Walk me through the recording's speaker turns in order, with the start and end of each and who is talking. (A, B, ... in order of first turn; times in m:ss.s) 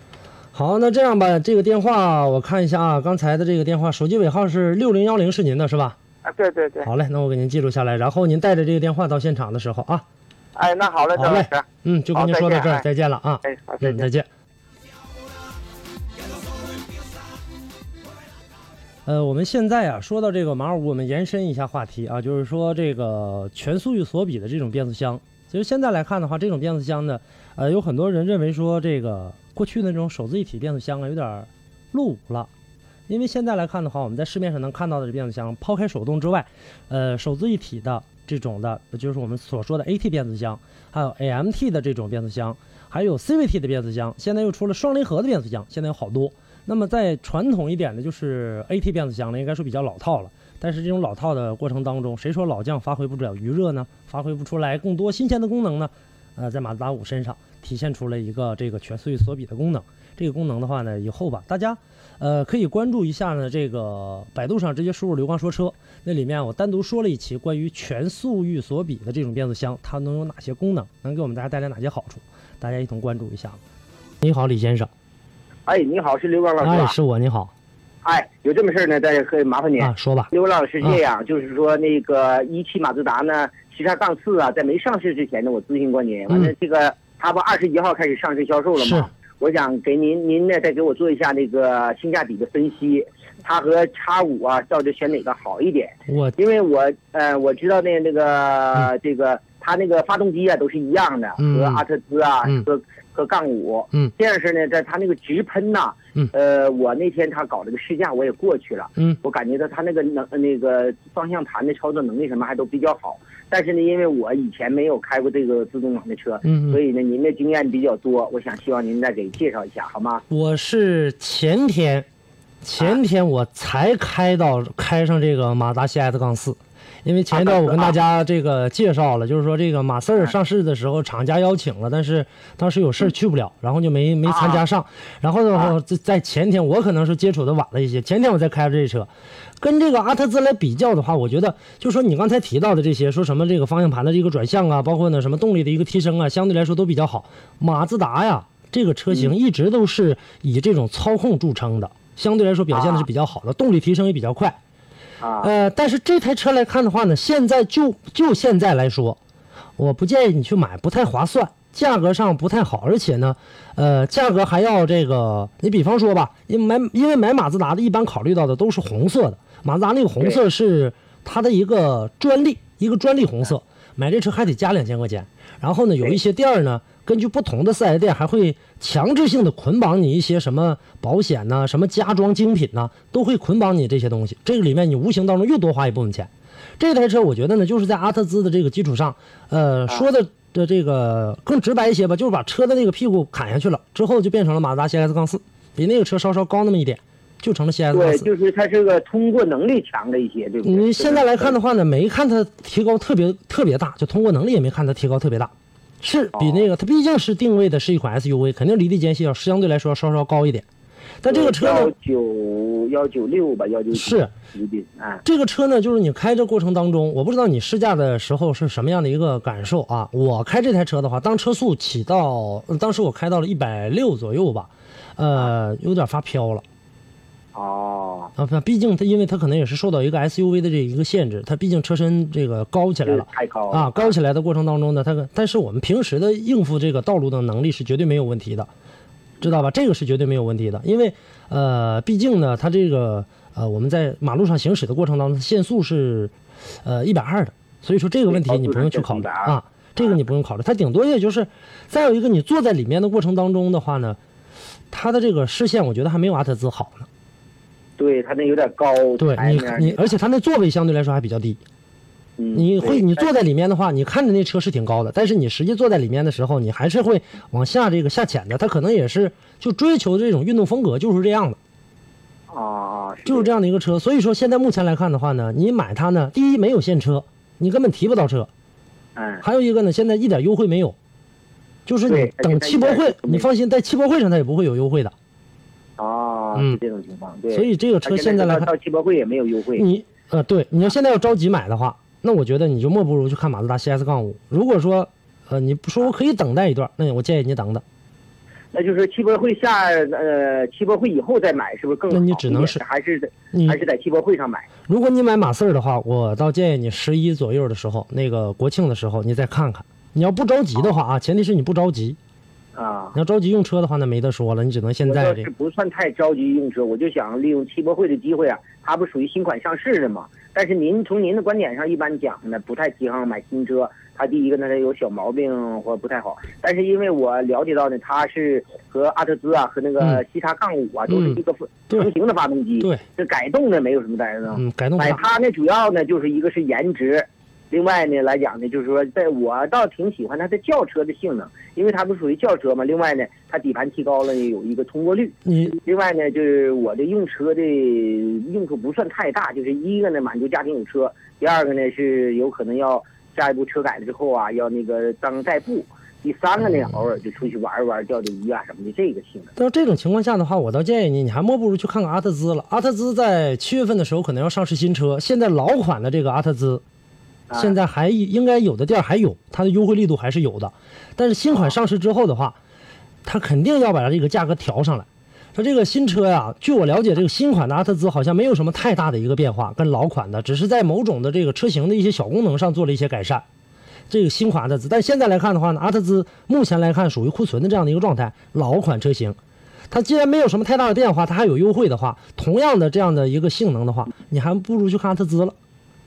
0:00.5-0:06.0 A
0:06.2-0:06.9 B
0:06.8-0:10.0 A
0:10.6-0:12.8 B
0:11.1-0:14.3 A
0:13.4-0:14.0 B
0:19.0-0:32.5 A
0:33.1-1:13.6 A
1:14.2-1:14.9 A
1:15.6-1:16.9 C
1:16.6-1:17.5 A
1:18.0-2:00.2 C
1:19.8-1:20.3 A
1:28.8-1:29.1 A
1:36.1-1:36.4 A
1:41.4-1:41.8 A
1:56.4-1:56.8 A
2:00.3-2:02.1 A
2:02.6-2:34.6 A
2:07.3-2:07.9 C
2:14.3-2:14.6 C
2:32.7-2:33.0 C
2:35.2-2:35.5 C
2:35.4-2:39.2 A
2:39.8-3:18.3 A
3:17.9-3:21.6 C
3:20.6-3:30.6 A
3:26.3-3:26.6 C
3:31.2-3:31.9 A
3:31.3-3:35.2 C
3:33.9-3:34.3 A
3:35.2-3:46.6 A
3:47.5-3:48.3 C
3:48.4-3:58.7 A
3:53.0-3:54.1 C
3:59.4-4:06.3 A
4:06.8-4:14.2 A
4:08.3-4:10.1 C
4:14.9-4:17.1 A
4:18.0-4:20.1 C
4:19.2-4:21.6 A
4:22.4-4:23.2 C
4:22.5-4:31.6 A
4:32.5-4:33.5 C
4:33.2-4:38.5 A
4:39.2-4:39.4 C
4:39.4-4:41.0 A
4:41.8-4:45.1 A
4:42.1-4:43.5 C
4:46.0-4:49.8 C
4:46.5-4:46.8 A
4:47.5-4:48.7 A
4:49.8-4:57.8 A
4:58.7-5:04.7 C
5:02.1-5:02.8 A
5:03.5-5:03.8 A
5:04.9-5:12.2 A
5:12.7-5:13.2 C
5:13.1-5:15.5 A
5:15.0-5:59.5 C
5:31.1-5:32.1 A
5:34.5-5:35.2 A
5:45.4-5:45.8 A
5:59.6-6:06.8 A
6:07.5-6:07.8 C
6:07.5-6:12.6 A
6:13.2-6:23.4 A
6:24.1-6:29.4 A
6:29.9-6:35.6 A